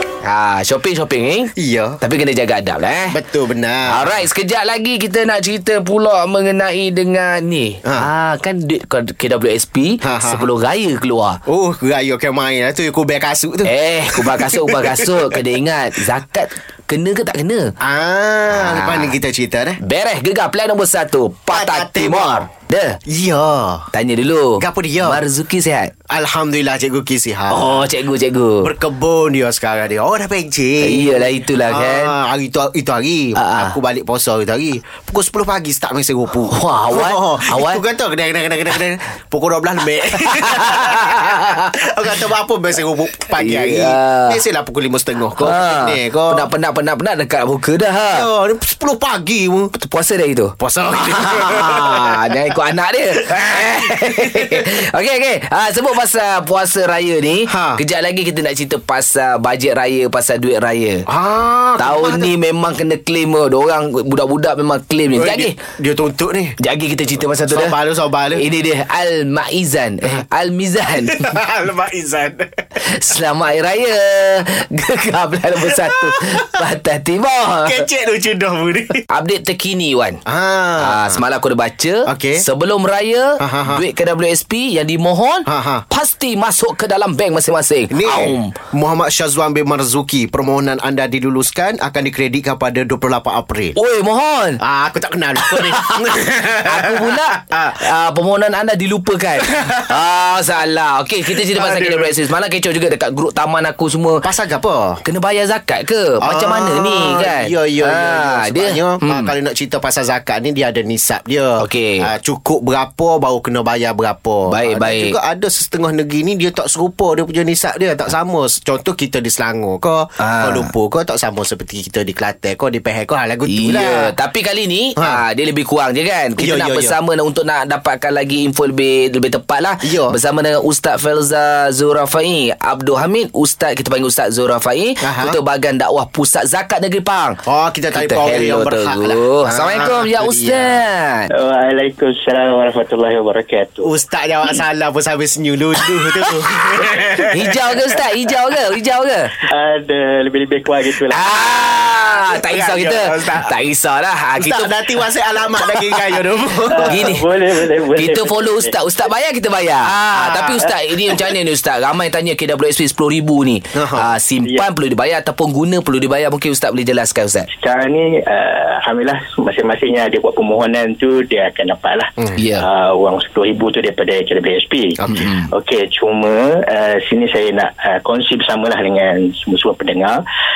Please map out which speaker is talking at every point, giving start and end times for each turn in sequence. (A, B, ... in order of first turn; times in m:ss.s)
0:00.2-0:03.2 A
0:01.6-0:02.0 B
0:03.1-0:04.1 B
0:03.9-0:11.4 A
0:10.0-0:10.4 B
0:11.4-0:15.4 B
0:13.6-0:17.7 A
0:17.8-0:19.8 B
0:18.5-0:19.2 A
0:19.8-0:23.0 A
0:21.5-0:22.5 B
0:23.0-0:23.9 B
0:23.9-0:25.9 A
0:24.6-0:25.2 B
0:26.1-0:27.9 B
0:27.5-0:28.7 A
0:28.6-0:46.5 B
0:30.8-0:32.1 A
0:33.4-0:33.8 A
0:36.5-0:37.8 A
0:40.3-0:41.8 A
0:43.4-0:44.4 A
0:45.4-0:48.3 A
0:48.1-0:49.7 B
0:49.8-0:50.5 A
0:50.6-0:52.6 B
0:51.1-1:01.0 A
0:53.2-0:54.7 B
0:57.5-0:57.8 B
1:01.1-1:02.3 B
1:01.8-1:05.5 A
1:05.1-1:06.6 B
1:06.6-1:07.7 A
1:07.4-1:08.4 B
1:08.3-1:11.3 A
1:10.9-1:12.8 B
1:12.8-1:17.8 A
1:15.6-1:16.6 B
1:17.6-1:19.0 B
1:19.1-1:20.2 A
1:20.2-1:21.2 B
1:20.8-1:28.5 A
1:22.0-1:22.4 B
1:23.4-1:23.8 B
1:25.4-1:25.8 B
1:27.9-1:33.8 B
1:33.8-1:34.6 A
1:34.6-1:37.8 B
1:35.4-1:44.2 A
1:39.4-1:40.0 B
1:41.3-1:42.1 B
1:44.2-1:45.0 B
1:45.0-1:49.3 A
1:46.2-2:04.1 B
1:51.6-1:52.0 A
1:54.5-1:55.1 A
2:00.2-2:00.7 A
2:03.5-2:17.4 A
2:06.4-2:07.0 B
2:09.8-2:10.2 B
2:15.0-2:15.4 B
2:17.4-2:20.8 B
2:17.9-2:21.3 A
2:21.3-2:23.9 C
2:23.8-2:27.6 B
2:27.3-2:29.4 A
2:29.4-2:31.7 C
2:31.1-2:34.7 A
2:32.3-2:33.5 B
2:34.4-2:37.1 B
2:36.7-2:38.7 C
2:36.8-2:37.2 A
2:38.0-2:47.5 A
2:39.8-2:40.6 B
2:43.7-2:44.1 B
2:47.6-2:55.0 C
2:52.4-2:52.6 A
2:55.0-2:55.3 B
2:55.1-2:55.5 A
2:55.5-3:00.2 C